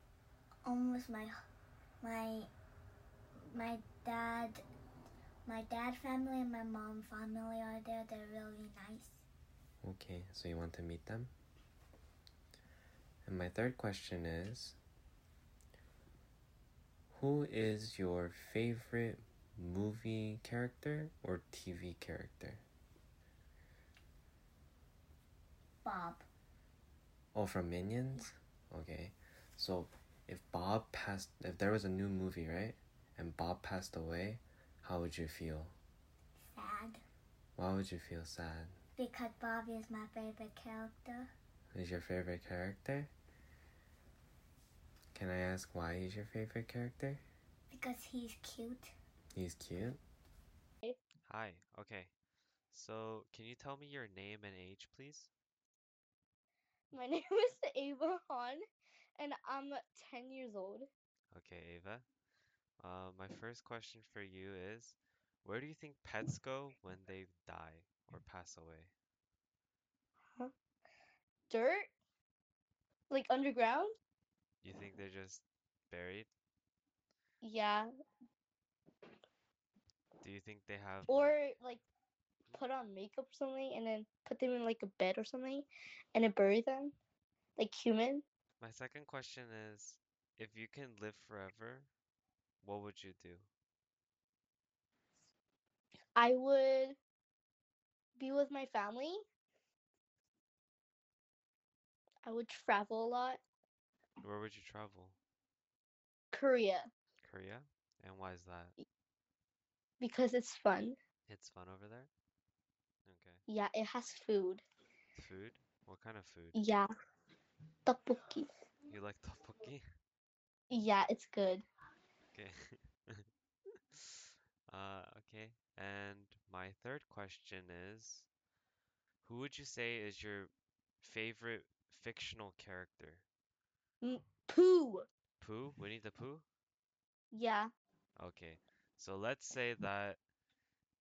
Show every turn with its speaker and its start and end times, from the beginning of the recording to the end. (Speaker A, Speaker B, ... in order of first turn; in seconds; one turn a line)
Speaker A: 0.7-1.4
Speaker A: 2.0-2.5
Speaker A: 3.4-4.6
Speaker A: 5.5-9.2
Speaker B: 9.8-11.3
Speaker B: 13.2-14.8
Speaker B: 17.1-22.6
Speaker A: 25.8-26.3
Speaker B: 27.3-35.8
Speaker A: 36.4-37.0
Speaker B: 37.6-38.8
Speaker A: 39.0-41.3
Speaker B: 41.7-43.1
Speaker B: 45.1-47.2
Speaker A: 47.7-48.9
Speaker B: 49.4-50.0
Speaker C: 51.3-52.1
Speaker C: 52.7-55.3
Speaker D: 56.9-58.6
Speaker D: 59.2-60.9
Speaker C: 61.3-62.1
Speaker C: 62.8-68.9
Speaker D: 71.5-71.9
Speaker D: 73.1-73.9
Speaker C: 74.6-76.3
Speaker D: 77.4-77.9
Speaker C: 80.2-81.4
Speaker D: 81.1-81.8
Speaker D: 82.5-87.0
Speaker D: 87.6-88.2
Speaker C: 88.6-91.9
Speaker C: 92.6-93.5
Speaker D: 96.2-97.0
Speaker D: 98.2-99.2
Speaker D: 102.2-103.4
Speaker C: 104.2-105.2
Speaker D: 106.3-106.9
Speaker C: 107.2-108.7
Speaker D: 110.0-111.0
Speaker C: 111.3-112.1
Speaker C: 113.1-113.4
Speaker D: 113.5-114.6
Speaker C: 115.2-116.5
Speaker D: 116.5-116.9
Speaker D: 117.9-118.5
Speaker C: 118.9-119.8
Speaker D: 120.7-121.7
Speaker C: 122.3-123.2
Speaker C: 124.7-128.3
Speaker C: 129.2-133.2
Speaker D: 134.0-135.1
Speaker C: 135.4-136.4
Speaker D: 137.3-137.7
Speaker C: 138.2-140.2